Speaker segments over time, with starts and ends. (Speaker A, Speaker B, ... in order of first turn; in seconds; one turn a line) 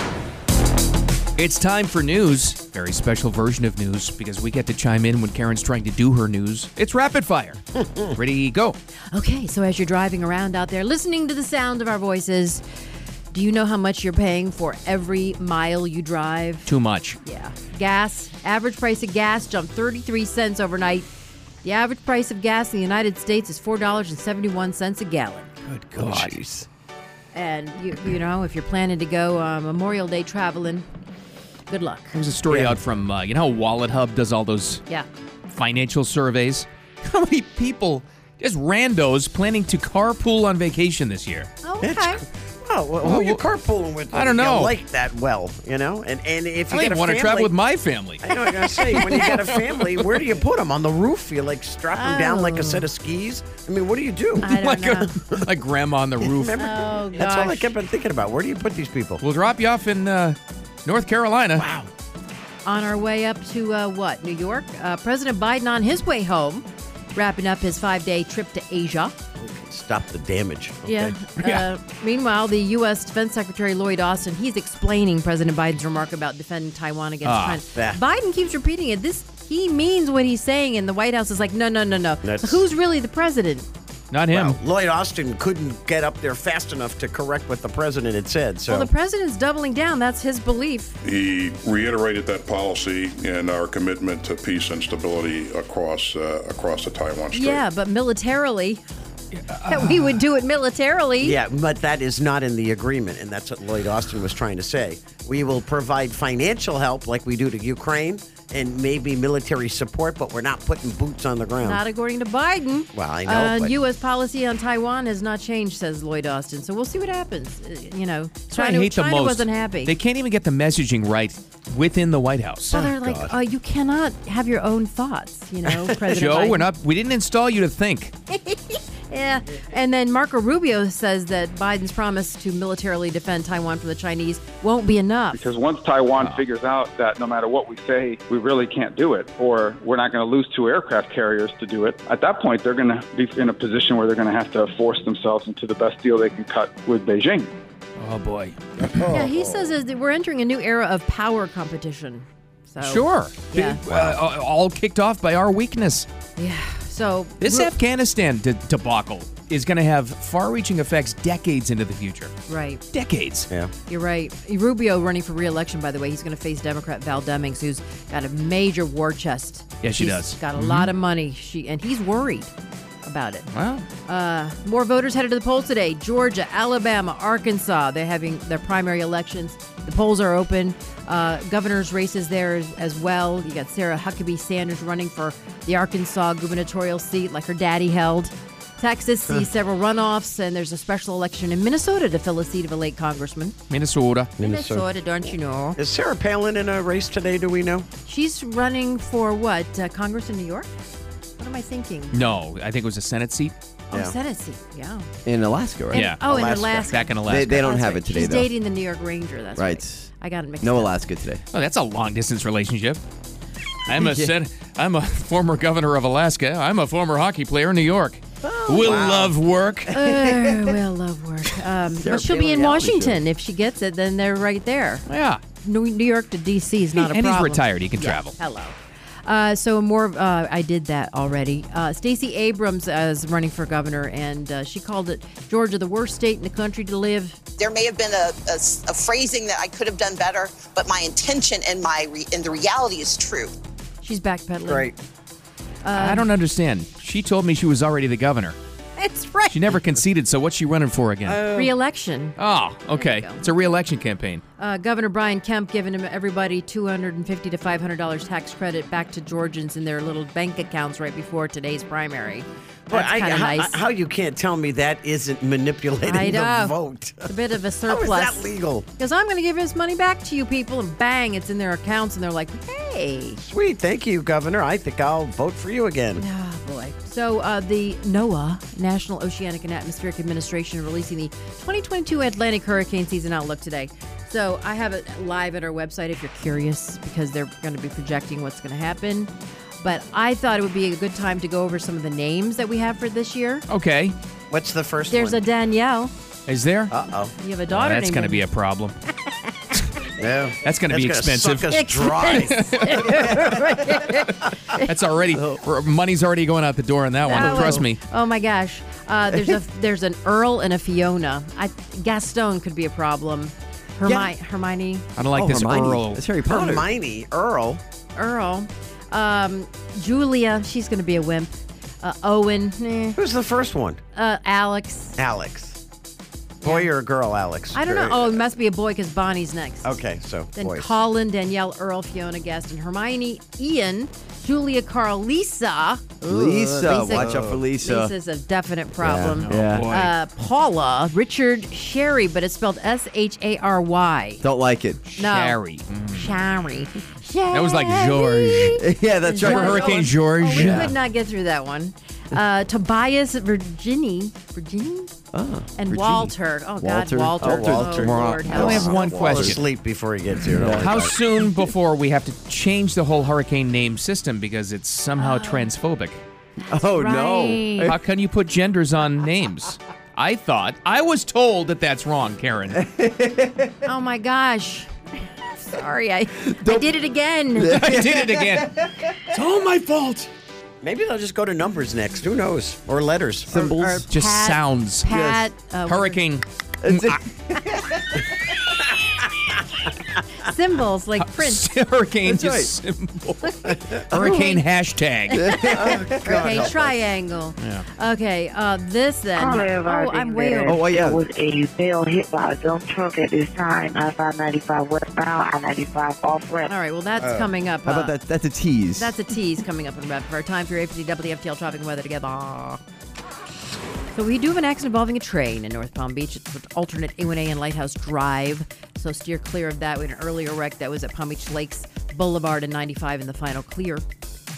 Speaker A: 1.4-8.8
Speaker B: 9.1-12.6
Speaker B: 13.3-16.7
Speaker A: 16.6-17.2
Speaker B: 17.2-21.1
Speaker B: 21.6-25.5
Speaker A: 25.6-26.4
Speaker C: 25.9-26.7
Speaker B: 27.3-30.8
Speaker B: 31.7-32.1
Speaker A: 32.1-34.8
Speaker C: 32.5-32.8
Speaker A: 35.5-41.5
Speaker B: 41.6-42.2
Speaker C: 41.8-47.5
Speaker A: 43.0-43.4
Speaker A: 44.1-44.8
Speaker A: 46.7-50.2
Speaker C: 48.2-54.5
Speaker B: 49.0-49.3
Speaker B: 51.9-52.9
Speaker B: 54.4-55.1
Speaker A: 54.4-56.6
Speaker C: 56.2-59.2
Speaker B: 56.6-57.7
Speaker A: 59.2-61.6
Speaker C: 61.5-61.9
Speaker B: 62.6-69.2
Speaker C: 69.4-71.2
Speaker B: 70.8-83.7
Speaker A: 77.2-77.6
Speaker C: 77.7-78.0
Speaker C: 82.2-82.7
Speaker A: 84.1-84.6
Speaker C: 84.3-88.9
Speaker B: 88.7-90.9
Speaker D: 91.0-97.6
Speaker B: 97.3-98.8
Speaker A: 99.5-100.2
Speaker B: 99.7-101.4
Speaker C: 101.2-111.8
Speaker B: 111.6-119.9
Speaker C: 112.9-113.7
Speaker A: 118.5-122.8
Speaker B: 122.7-126.7
Speaker C: 122.7-123.4
Speaker C: 125.7-126.1
Speaker A: 126.1-128.1
Speaker B: 128.3-135.5
Speaker E: 135.3-147.5
Speaker A: 136.2-136.4
Speaker A: 148.0-148.6
Speaker C: 148.8-149.7
Speaker B: 149.0-153.8
Speaker A: 152.8-156.1
Speaker C: 153.8-154.2
Speaker B: 156.3-157.7
Speaker A: 157.4-162.3
Speaker B: 162.5-162.8
Speaker A: 162.9-163.5
Speaker B: 163.9-172.5
Speaker A: 169.8-170.9
Speaker B: 173.0-173.5
Speaker A: 173.5-173.9
Speaker B: 174.1-193.6
Speaker A: 193.7-194.3
Speaker C: 194.4-197.9
Speaker B: 194.4-195.8
Speaker B: 198.0-200.7
Speaker B: 201.4-202.2
Speaker A: 202.1-203.5
Speaker B: 203.9-205.1
Speaker F: 205.2-206.1
Speaker B: 205.9-210.9
Speaker A: 205.9-207.7
Speaker C: 206.2-207.0
Speaker F: 207.2-208.5
Speaker F: 209.6-210.1
Speaker F: 210.6-211.4
Speaker A: 211.5-213.0
Speaker A: 213.9-220.3
Speaker F: 213.9-214.3
Speaker C: 218.4-219.3
Speaker B: 219.9-225.1
Speaker F: 221.9-223.2
Speaker A: 225.1-225.4
Speaker B: 225.6-237.4
Speaker A: 226.9-228.3
Speaker G: 237.6-243.5
Speaker B: 244.0-244.9
Speaker C: 244.6-244.9
Speaker B: 245.8-246.3
Speaker A: 245.9-248.6
Speaker B: 249.0-249.7
Speaker A: 249.5-251.5
Speaker C: 251.2-251.7
Speaker B: 251.5-252.3
Speaker A: 252.3-254.4
Speaker B: 252.9-253.4
Speaker B: 254.6-263.8
Speaker C: 262.9-267.3
Speaker B: 266.0-273.4
Speaker C: 267.9-268.9
Speaker C: 273.4-276.2
Speaker B: 276.2-293.6
Speaker A: 293.7-294.1
Speaker C: 294.5-295.4
Speaker B: 295.1-296.1
Speaker A: 296.5-296.9
Speaker C: 296.9-297.3
Speaker B: 297.3-298.4
Speaker A: 297.7-298.9
Speaker C: 300.2-303.1
Speaker A: 300.6-303.3
Speaker B: 301.9-304.9
Speaker A: 304.7-308.0
Speaker F: 305.3-305.6
Speaker B: 307.3-315.1
Speaker F: 307.3-307.8
Speaker A: 315.1-316.2
Speaker F: 315.3-316.9
Speaker C: 316.4-317.8
Speaker B: 318.1-323.2
Speaker C: 323.1-324.0
Speaker B: 324.1-325.2
Speaker C: 325.2-325.8
Speaker C: 326.6-328.4
Speaker B: 326.6-326.9
Speaker B: 327.7-330.0
Speaker C: 329.8-331.0
Speaker B: 330.5-344.4
Speaker F: 336.2-338.1
Speaker C: 337.1-337.6
Speaker C: 339.0-339.4
Speaker A: 339.3-340.1
Speaker F: 339.4-339.9
Speaker F: 344.4-345.0
Speaker A: 345.1-346.3
Speaker B: 345.1-355.1
Speaker A: 347.5-348.8
Speaker F: 348.8-350.0
Speaker A: 349.4-350.9
Speaker F: 350.5-350.8
Speaker F: 355.3-359.6
Speaker B: 355.8-359.3
Speaker C: 357.4-361.1
Speaker A: 358.5-359.6
Speaker F: 360.5-361.0
Speaker A: 360.8-366.2
Speaker B: 365.2-365.7
Speaker B: 366.7-367.9
Speaker F: 366.7-368.0
Speaker A: 367.8-372.8
Speaker F: 372.8-373.7
Speaker B: 373.8-377.8
Speaker F: 376.4-376.9
Speaker F: 377.6-378.9
Speaker A: 377.6-380.3
Speaker C: 380.8-383.6
Speaker F: 383.5-384.1
Speaker B: 383.5-386.2
Speaker A: 384.1-385.1
Speaker F: 385.1-385.4
Speaker A: 385.9-387.2
Speaker F: 386.8-388.2
Speaker B: 390.4-391.6
Speaker A: 391.2-395.5
Speaker F: 392.2-392.7
Speaker B: 394.1-394.6
Speaker B: 395.3-401.0
Speaker F: 395.4-396.3
Speaker C: 395.7-396.9
Speaker A: 397.6-397.8
Speaker H: 399.4-406.7
Speaker F: 400.6-401.2
Speaker B: 406.6-408.1
Speaker C: 407.2-407.5
Speaker F: 407.9-409.1
Speaker B: 408.9-412.8
Speaker B: 414.1-424.0